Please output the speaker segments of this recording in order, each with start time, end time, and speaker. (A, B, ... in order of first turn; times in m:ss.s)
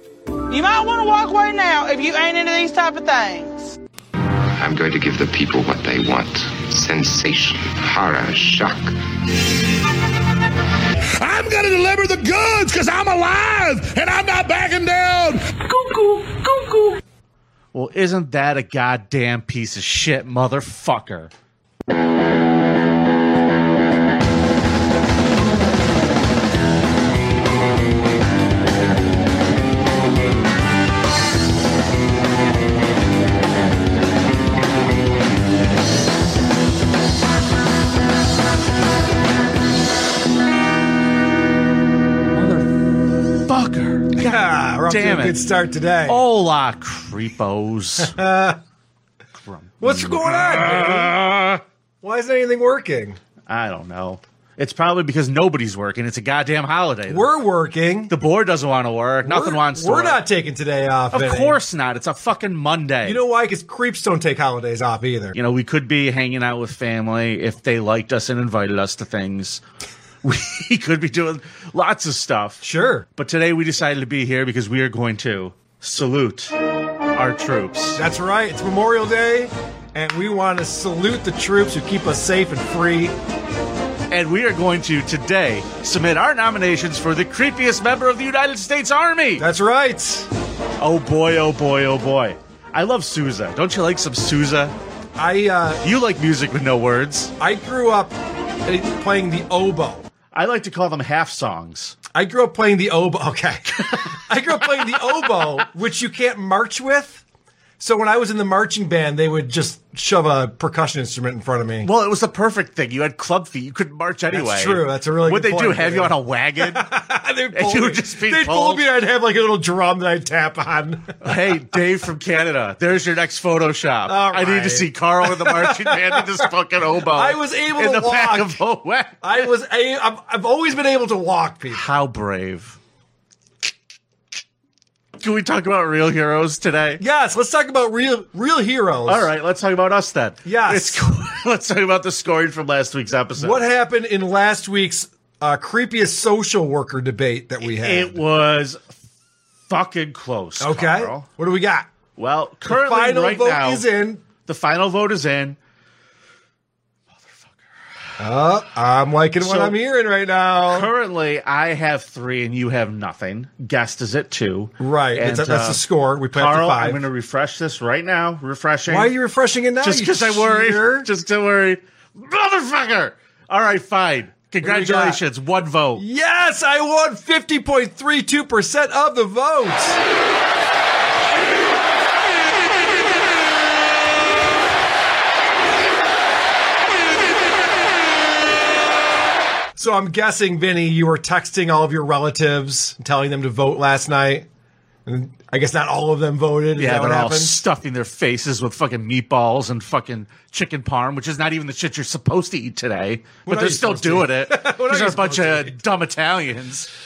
0:00.5-0:03.7 A
0:04.6-0:08.9 B
0:11.2-0:15.4 C
0:16.5-0:16.7 C
0:17.7-0:21.3 D
0:42.4-0:42.6 D
0:43.4-0:45.4 D
0:44.2-0:46.2 E
0:46.0-0:48.2 D
0:48.0-0:48.6 E
0:49.4-0:51.6 D
0:49.8-0:51.3 E
0:52.0-0:53.2 E
0:53.5-0:57.3 D
0:57.1-0:58.1 E
0:58.1-1:00.2 D
0:59.2-1:01.6 E
1:01.1-1:03.2 D
1:03.0-1:05.4 E
1:05.4-1:09.6 D
1:10.2-1:12.6 D
1:12.6-1:13.1 E
1:13.2-1:16.5 D
1:17.1-1:18.0 D
1:18.0-1:23.1 E
1:24.1-1:29.4 D
1:29.4-1:30.3 E
1:30.8-1:34.7 D
1:35.2-1:35.8 E
1:35.8-1:37.3 D
1:37.4-1:38.1 E
1:38.6-1:40.0 E
1:40.3-1:42.0 D
1:42.1-1:47.2 E
1:47.8-1:51.9 E
1:51.8-1:56.8 D
1:54.3-2:01.1 E
1:57.5-1:58.8 D
2:01.2-2:09.4 D
2:04.1-2:06.5 E
2:07.0-2:08.6 E
2:09.2-2:11.8 E
2:11.7-2:12.8 D
2:15.2-2:17.0 D
2:17.0-2:19.3 E
2:19.1-2:23.6 D
2:20.4-2:21.0 E
2:23.4-2:28.2 E
2:27.6-2:28.9 D
2:29.7-2:31.3 D
2:30.6-2:31.9 E
2:32.2-2:33.8 D
2:32.7-2:34.2 E
2:34.4-2:35.6 D
2:37.1-2:37.6 D
2:38.2-2:40.9 E
2:39.4-2:39.8 D
2:40.7-2:45.8 D
2:44.8-2:47.0 E
2:46.3-2:49.1 D
2:48.9-2:51.1 E
2:49.8-2:56.0 D
2:54.6-2:55.2 E
2:56.0-3:00.0 E
3:09.8-3:14.5 E
3:15.0-3:17.5 E
3:16.8-3:26.9 D
3:23.4-3:25.8 E